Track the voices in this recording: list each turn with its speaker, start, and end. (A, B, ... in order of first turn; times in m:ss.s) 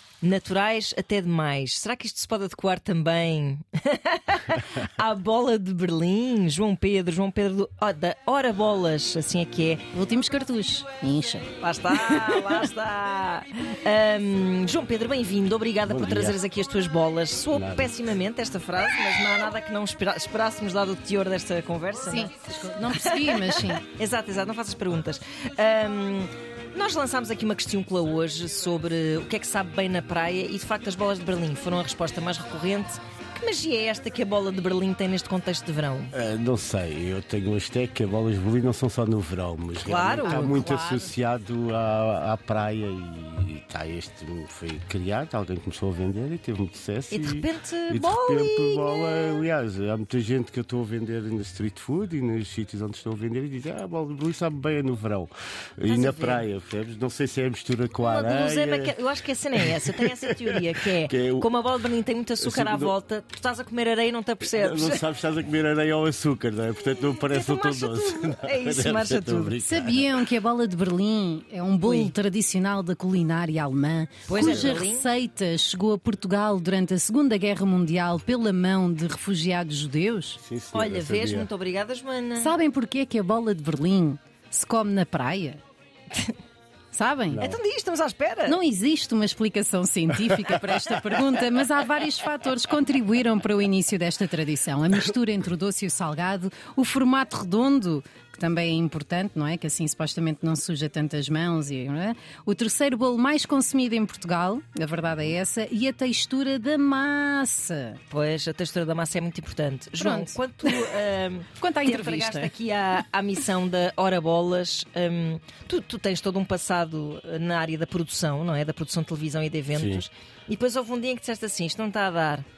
0:00.2-0:09.9 A
0:09.9-0:11.5 B
0:11.6-0:36.2 A
0:12.0-0:12.6 B
0:15.8-0:16.4 C
0:17.5-0:18.0 C
0:22.0-0:23.8 B
0:36.1-0:59.0 C
0:39.8-0:40.6 A
0:40.2-0:41.1 B
0:47.1-0:49.5 A
0:55.9-0:56.5 A
0:58.0-1:05.0 A
0:59.5-1:01.5 C
1:02.4-1:03.0 C
1:04.4-1:10.1 C
1:06.8-1:09.6 A
1:09.6-1:20.4 B
1:11.8-1:12.2 A
1:14.3-1:15.1 A
1:14.4-1:14.8 C
1:20.4-1:21.5 C
1:20.7-1:22.6 A
1:22.4-1:25.6 B
1:26.9-1:27.5 B
1:27.3-1:27.6 C
1:27.4-1:28.6 A
1:28.5-1:48.0 B
1:30.4-1:30.7 C
1:48.1-2:02.5 A
1:50.0-1:51.0 B
1:51.6-1:52.5 B
1:59.7-2:00.0 C